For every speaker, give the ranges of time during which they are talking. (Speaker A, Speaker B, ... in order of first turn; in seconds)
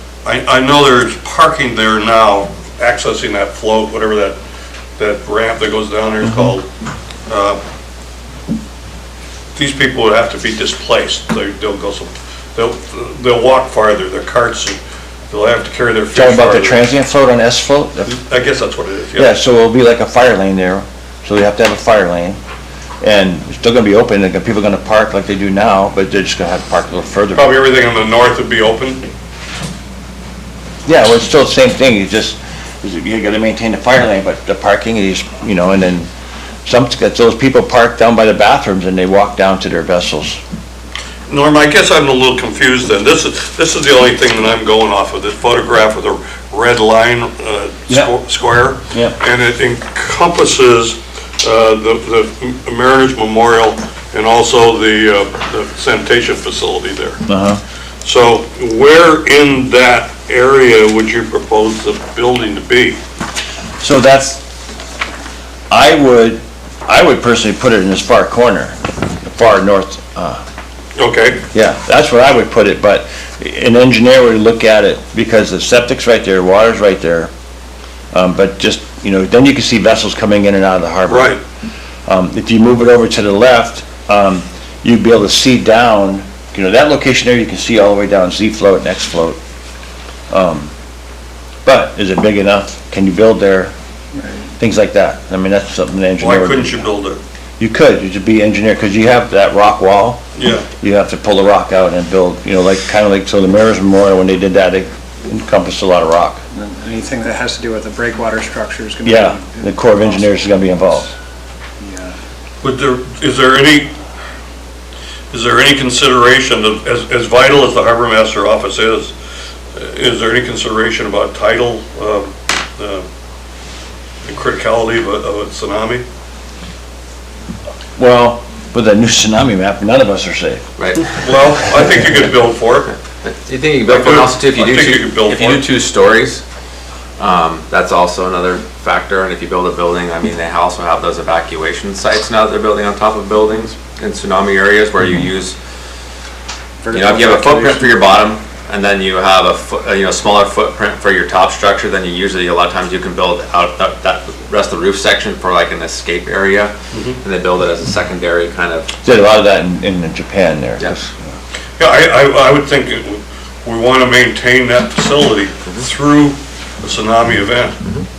Speaker A: 0.2-4.4, 5.0-6.7, 7.3-7.6, 9.6-14.8, 15.3-16.7, 18.1-19.3, 27.3-29.1, 41.3-57.2, 58.0-63.0, 71.0-71.4, 81.1-81.4, 96.2-97.2, 100.4-100.7, 112.6-114.0, 115.3-119.2, 119.7-123.1, 124.2-126.0, 131.2-132.9, 133.9-135.4, 161.8-167.8
Speaker B: 6.2-6.6, 16.1-18.2, 19.1-22.4, 23.0-27.6, 30.9-36.1, 36.6-40.4, 48.9-49.2, 57.3-57.6, 63.8-64.4, 65.7-70.4, 71.5-77.3, 78.1-81.4, 82.1-89.4, 90.3-90.7, 91.7-93.7, 94.6-96.9, 97.6-100.3, 100.8-106.4, 109.0-111.1, 128.0-130.6, 159.0-161.1
Speaker C: 94.1-94.5, 106.5-111.1, 111.8-112.2, 146.8-148.2
Speaker D: 130.8-131.1, 132.9-136.4, 137.2-145.6, 146.9-158.9, 160.8-161.1